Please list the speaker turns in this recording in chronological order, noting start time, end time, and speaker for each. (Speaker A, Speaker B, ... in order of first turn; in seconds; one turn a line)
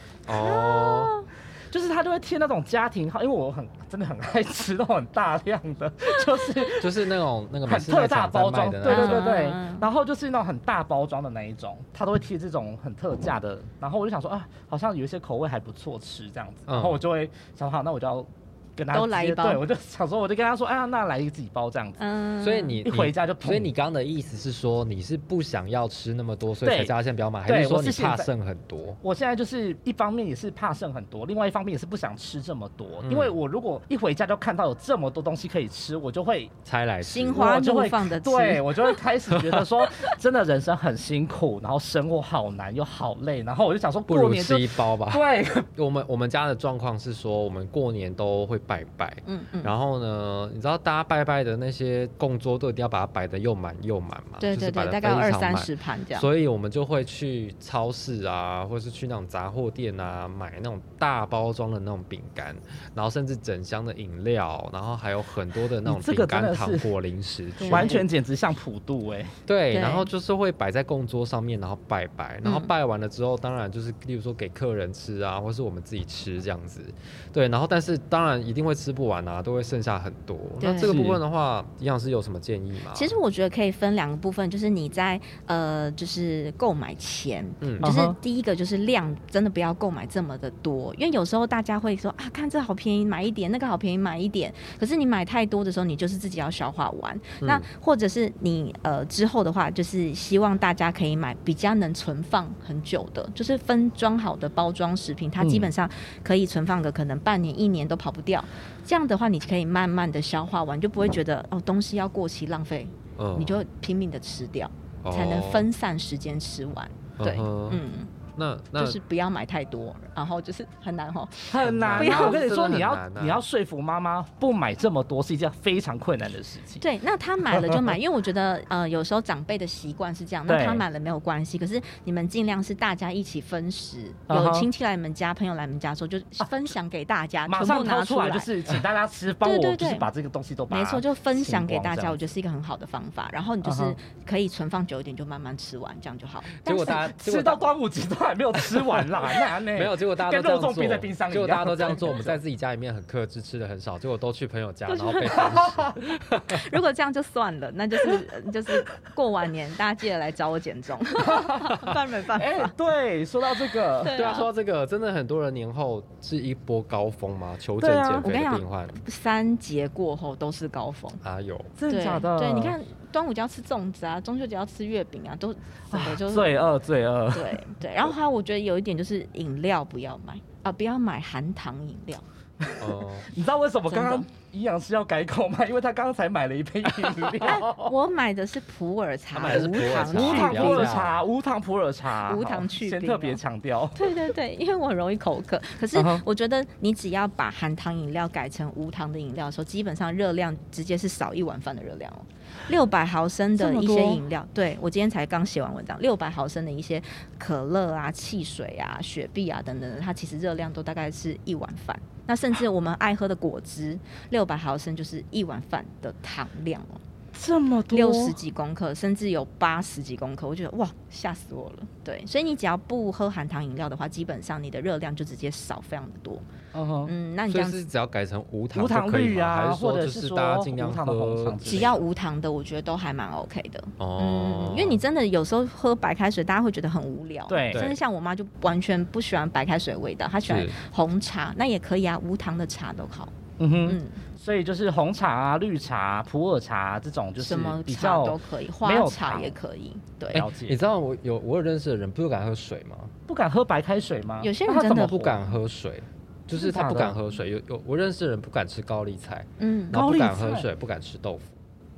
Speaker A: 0.3-1.1
Speaker B: 0.4-1.3
Speaker C: 1.7-6.9
Speaker A: 6.7-9.3
Speaker C: 7.7-22.0
Speaker B: 8.9-9.9
Speaker A: 16.7-17.0
Speaker B: 18.9-19.6
Speaker B: 22.0-22.8
Speaker A: 22.4-29.0
Speaker C: 22.9-23.7
Speaker C: 26.6-26.9
Speaker C: 27.5-28.3
Speaker C: 29.0-36.5
Speaker A: 33.0-33.4
Speaker A: 36.6-37.5
Speaker B: 37.0-39.0
Speaker C: 37.3-45.7
Speaker A: 39.4-39.7
Speaker A: 44.1-68.0
Speaker B: 49.2-49.7
Speaker B: 54.4-56.3
Speaker C: 65.8-66.9
Speaker B: 67.6-68.0
Speaker C: 67.7-69.3
Speaker A: 69.5-83.2
Speaker B: 69.7-70.1
Speaker B: 72.4-72.7
Speaker B: 80.6-81.0
Speaker C: 80.8-81.2
Speaker B: 82.9-118.1
Speaker A: 87.6-87.9
Speaker C: 87.8-88.2
Speaker A: 97.4-97.7
Speaker C: 105.4-105.7
Speaker A: 113.2-113.6
Speaker A: 115.0-115.7
Speaker A: 117.2-117.8
Speaker A: 118.3-119.0
Speaker B: 118.8-122.4
Speaker C: 121.5-126.8
Speaker A: 121.6-123.4
Speaker B: 126.8-138.5
Speaker C: 127.5-127.9
Speaker C: 130.5-130.8
Speaker C: 134.3-134.7
Speaker C: 137.5-142.3
Speaker B: 139.4-140.1
Speaker B: 140.7-147.2
Speaker C: 143.6-144.0
Speaker A: 146.6-147.6
Speaker C: 147.1-152.4
Speaker A: 149.7-156.8
Speaker B: 154.9-155.7
Speaker C: 155.5-155.9
Speaker B: 156.5-162.7
Speaker C: 161.2-164.3
Speaker B: 164.0-164.5
Speaker A: 164.1-169.0
Speaker C: 167.8-168.3
Speaker B: 168.2-171.2
Speaker A: 171.2-171.7
Speaker C: 171.8-172.8
Speaker B: 171.9-176.6
Speaker C: 175.9-178.1
Speaker B: 177.3-182.2
Speaker C: 182.6-187.9
Speaker A: 182.8-183.3
Speaker B: 183.9-184.3
Speaker B: 187.4-191.0
Speaker A: 189.3-191.2
Speaker C: 189.5-194.2
Speaker B: 192.3-193.4
Speaker B: 193.9-217.0
Speaker C: 195.9-196.2
Speaker C: 203.6-204.2
Speaker C: 217.3-218.4
Speaker B: 217.9-226.4
Speaker C: 226.7-227.1
Speaker B: 227.1-227.8
Speaker A: 227.5-231.9
Speaker C: 228.7-232.0
Speaker B: 231.7-243.3
Speaker A: 234.0-235.0
Speaker C: 237.5-237.9
Speaker A: 237.7-238.0
Speaker A: 240.4-240.8
Speaker C: 243.6-249.6
Speaker B: 243.9-244.2
Speaker B: 247.4-250.4
Speaker A: 250.3-253.1
Speaker C: 250.3-250.8
Speaker C: 253.3-255.4
Speaker B: 254.4-255.2
Speaker A: 254.8-261.6
Speaker C: 256.6-257.2
Speaker B: 259.6-260.0
Speaker C: 259.9-260.7